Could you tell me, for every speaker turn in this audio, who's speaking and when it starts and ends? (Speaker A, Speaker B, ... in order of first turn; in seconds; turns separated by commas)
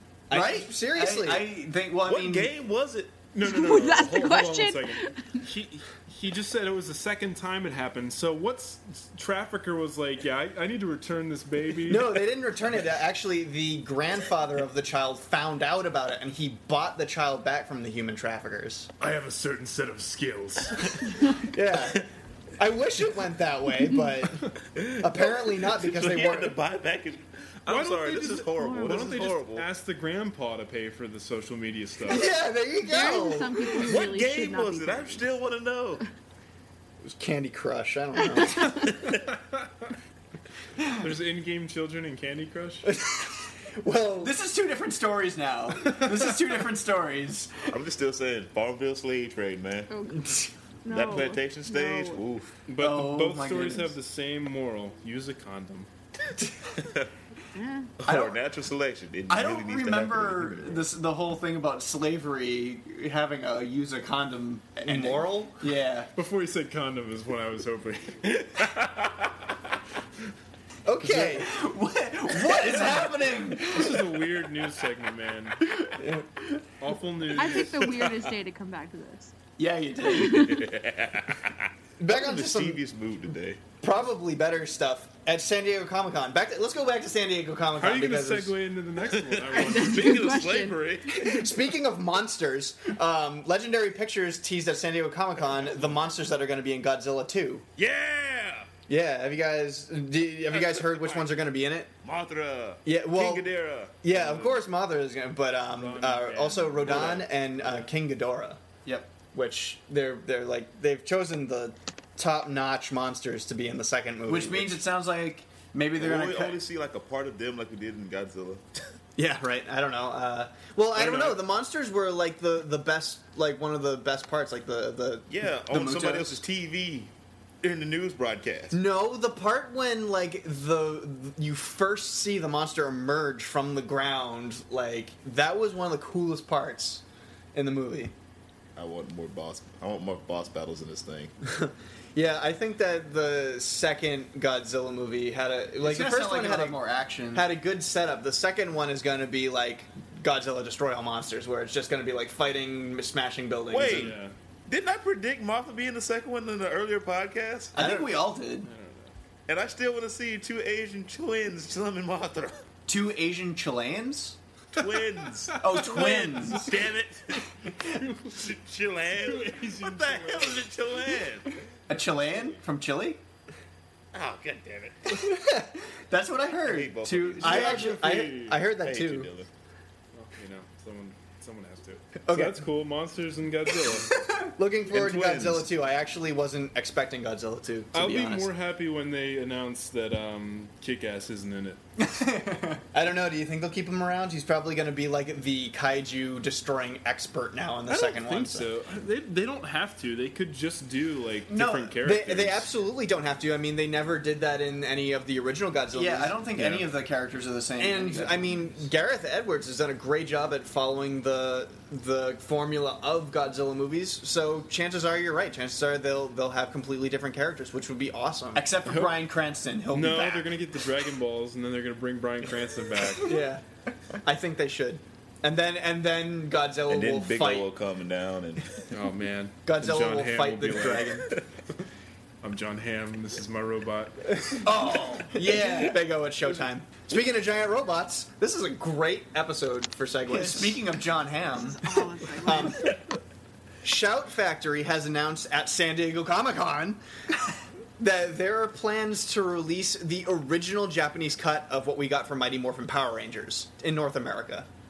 Speaker A: 0.3-1.5, Speaker B: 0.3-2.5, Speaker C: 2.0-3.2, Speaker D: 3.3-12.2, Speaker E: 3.4-5.4, Speaker A: 11.9-18.9, Speaker D: 19.0-21.2, Speaker A: 21.5-26.6, Speaker C: 24.6-29.7, Speaker D: 27.7-32.3, Speaker E: 28.6-29.1, Speaker A: 32.1-33.8, Speaker E: 32.8-35.3, Speaker C: 33.8-36.0, Speaker A: 37.0-38.9, Speaker D: 41.0-42.9, Speaker A: 42.8-44.3, Speaker B: 44.2-47.5, Speaker C: 47.7-49.9, Speaker E: 49.9-52.2, Speaker C: 50.9-52.5, Speaker D: 52.7-55.9, Speaker B: 52.8-53.9, Speaker C: 56.8-57.1, Speaker E: 57.5-57.9, Speaker C: 58.0-60.9, Speaker B: 59.3-66.1, Speaker A: 64.8-65.6, Speaker D: 66.1-68.4, Speaker C: 68.3-69.3, Speaker A: 70.8-71.5, Speaker B: 71.0-74.0, Speaker D: 73.6-75.6, Speaker A: 76.0-76.3, Speaker D: 76.8-77.9, Speaker E: 77.3-79.3, Speaker B: 79.6-80.5, Speaker E: 80.1-80.6, Speaker C: 80.2-83.6, Speaker A: 82.0-82.8, Speaker A: 83.8-88.5, Speaker D: 87.8-90.2, Speaker C: 89.1-91.3, Speaker E: 89.5-91.4, Speaker A: 91.2-97.7, Speaker C: 97.8-98.7, Speaker A: 98.9-101.9, Speaker C: 100.5-101.4, Speaker C: 102.0-103.9, Speaker A: 102.8-103.5, Speaker A: 104.0-108.6, Speaker D: 104.1-104.6, Speaker D: 105.7-107.8, Speaker C: 106.8-107.3, Speaker B: 108.8-109.1, Speaker A: 109.3-114.8, Speaker B: 114.3-116.6, Speaker C: 116.0-118.9, Speaker A: 119.2-126.2, Speaker C: 120.9-121.4, Speaker C: 125.3-128.8, Speaker A: 128.7-137.0, Speaker A: 137.5-138.1, Speaker C: 138.8-141.3, Speaker A: 141.4-146.8, Speaker B: 145.8-147.5, Speaker A: 147.3-154.2, Speaker C: 153.7-157.8, Speaker D: 153.8-154.3, Speaker B: 157.7-158.7, Speaker A: 157.8-158.1, Speaker D: 158.6-159.1, Speaker C: 159.5-162.6, Speaker B: 162.9-164.4, Speaker C: 164.7-167.5, Speaker B: 165.6-166.7, Speaker D: 168.0-168.4, Speaker C: 168.2-171.6, Speaker D: 169.2-170.7, Speaker B: 171.9-173.2, Speaker C: 174.1-175.2, Speaker A: 175.2-175.7, Speaker B: 176.1-177.9, Speaker C: 176.6-179.5, Speaker A: 177.4-179.3, Speaker D: 177.4-178.6, Speaker D: 180.1-184.2, Speaker A: 182.3-182.6, Speaker A: 184.6-188.5, Speaker C: 184.9-185.7, Speaker D: 187.9-191.8, Speaker B: 192.0-192.8, Speaker A: 192.9-198.7, Speaker D: 197.9-202.7, Speaker A: 201.6-206.4, Speaker B: 205.9-208.6, Speaker A: 207.8-218.6, Speaker B: 218.5-220.5, Speaker D: 218.8-219.2, Speaker D: 219.9-223.3, Speaker A: 223.2-223.6, Speaker A: 224.2-227.7, Speaker C: 226.8-228.9, Speaker D: 228.9-231.2, Speaker A: 229.7-231.3, Speaker D: 232.4-234.3, Speaker A: 234.5-240.8, Speaker B: 234.7-235.8, Speaker B: 240.3-241.8, Speaker E: 241.5-242.9, Speaker A: 242.4-242.9, Speaker A: 243.8-247.0, Speaker A: 248.0-254.7